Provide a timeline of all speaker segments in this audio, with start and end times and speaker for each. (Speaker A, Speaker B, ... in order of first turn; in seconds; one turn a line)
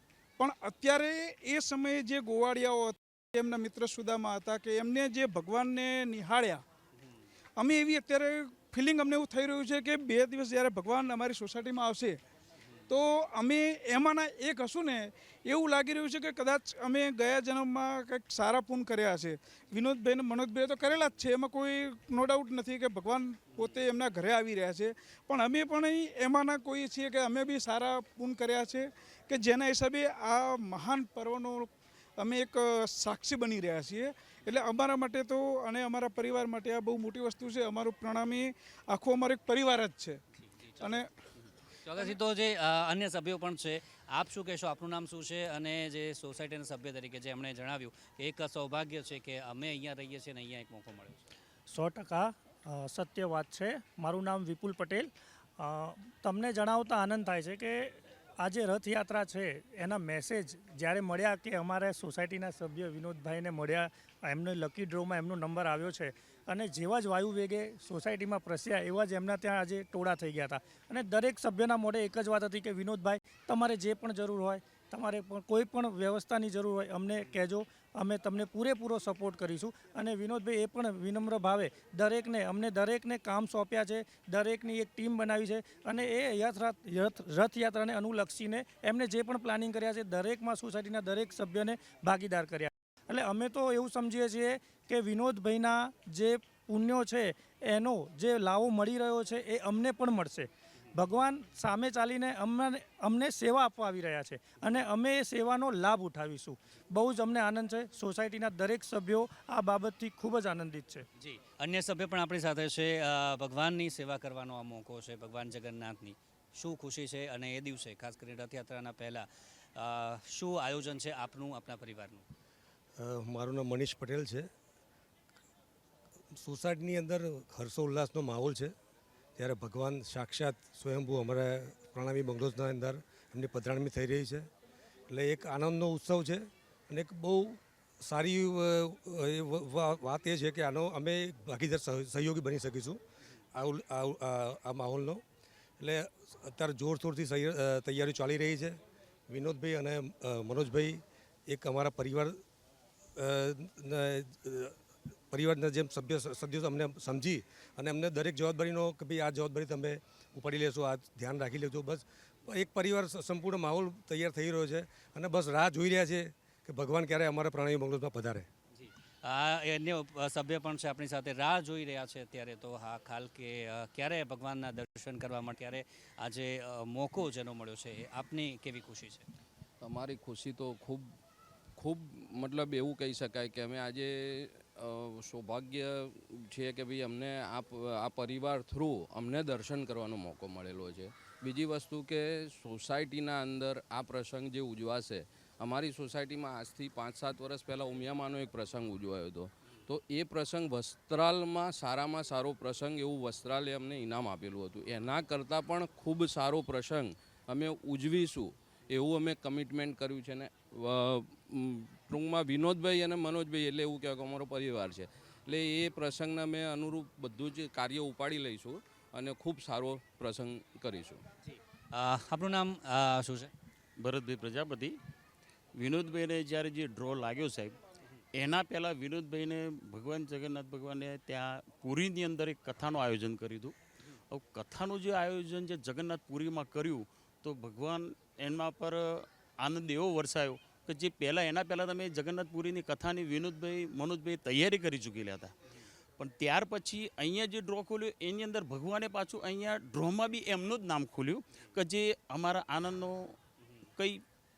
Speaker A: 0.4-6.6
Speaker A: 7.6-12.2
Speaker A: 12.9-40.2
Speaker B: 40.8-41.1
Speaker A: 40.8-41.1
Speaker B: 41.8-51.2
Speaker C: 51.7-111.1
Speaker B: 111.2-122.3
Speaker D: 123.0-124.5
Speaker D: 126.3-128.7
Speaker D: 129.4-134.5
Speaker D: 135.1-143.0
Speaker D: 143.6-145.2
Speaker D: 145.8-148.8
Speaker D: 149.3-152.4
Speaker D: 153.2-168.5
Speaker B: 168.8-179.2
Speaker E: 179.8-181.1
Speaker E: 181.8-221.2
Speaker B: 221.5-223.5
Speaker F: 224.0-225.0
Speaker F: 225.8-227.8
Speaker F: 228.3-233.8
Speaker F: 234.3-245.5
Speaker F: 246.2-253.3
Speaker F: 254.0-254.2